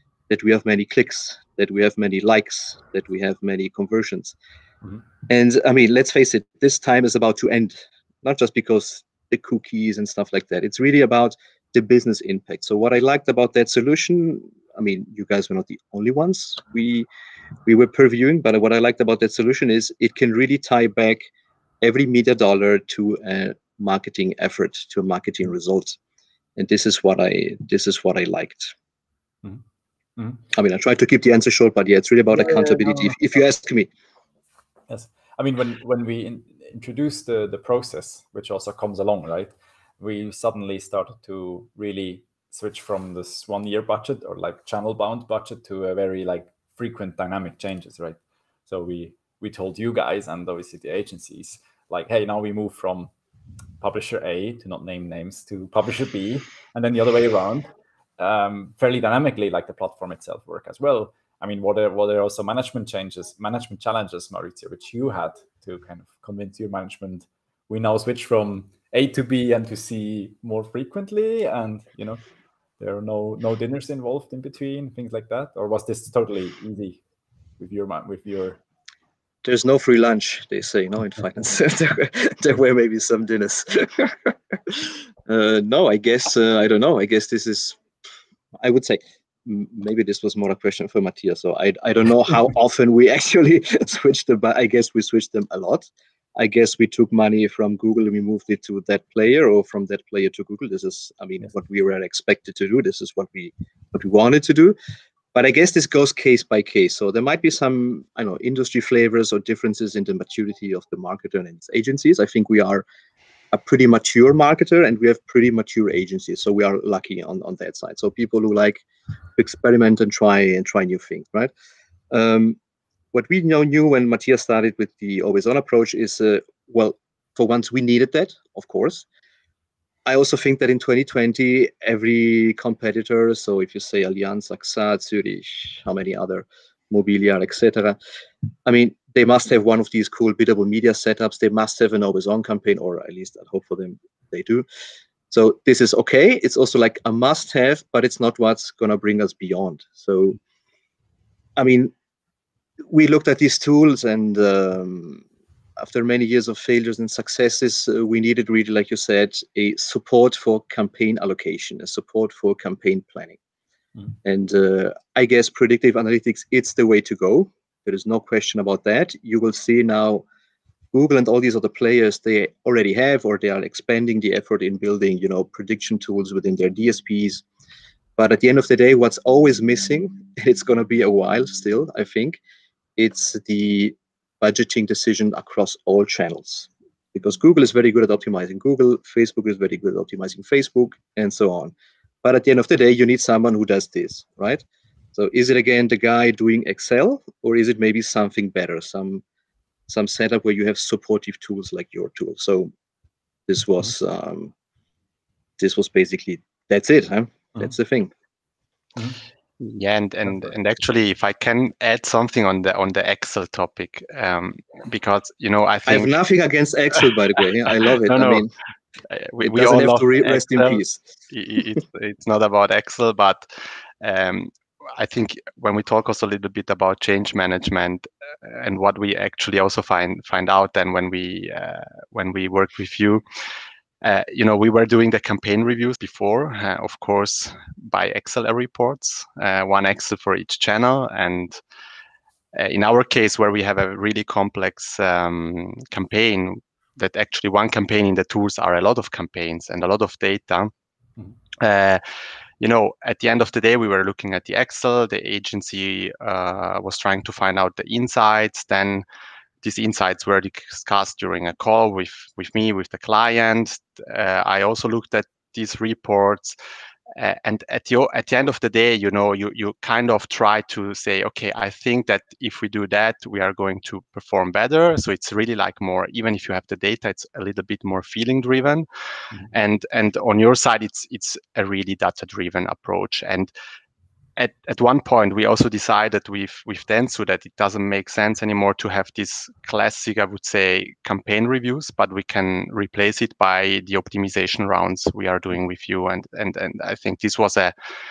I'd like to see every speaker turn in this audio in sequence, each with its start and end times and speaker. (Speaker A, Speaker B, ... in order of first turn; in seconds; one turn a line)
Speaker A: 0.3-4.3
Speaker A: 5.3-17.1
Speaker A: 17.6-21.3
Speaker A: 21.8-26.0
Speaker A: 26.6-28.7
Speaker B: 30.2-30.4
Speaker A: 30.5-33.9
Speaker B: 32.3-33.2
Speaker B: 34.9-53.1
Speaker B: 53.8-72.2
Speaker B: 72.8-77.0
Speaker B: 77.6-78.6
Speaker A: 79.4-87.8
Speaker A: 88.6-104.8
Speaker A: 105.3-112.8
Speaker A: 113.5-118.8
Speaker A: 119.4-121.5
Speaker A: 122.1-122.6
Speaker A: 123.1-129.0
Speaker A: 130.1-138.0
Speaker A: 138.7-144.7
Speaker A: 145.3-150.4
Speaker A: 151.6-151.9
Speaker A: 152.8-155.2
Speaker A: 155.8-163.4
Speaker A: 164.2-170.2
Speaker A: 170.9-177.4
Speaker A: 178.2-182.4
Speaker A: 183.0-191.7
Speaker A: 192.2-194.6
Speaker A: 195.1-199.2
Speaker A: 199.9-202.7
Speaker A: 203.5-204.5
Speaker A: 205.6-208.1
Speaker C: 209.6-216.2
Speaker B: 210.3-210.5
Speaker A: 215.8-218.5
Speaker C: 217.8-218.5
Speaker C: 219.1-223.5
Speaker A: 219.4-221.0
Speaker C: 224.0-233.2
Speaker C: 234.0-241.6
Speaker C: 242.5-250.7
Speaker C: 251.6-252.0
Speaker C: 252.6-259.0
Speaker C: 259.6-266.6
Speaker C: 267.1-278.9
Speaker C: 279.5-283.5
Speaker C: 284.4-297.7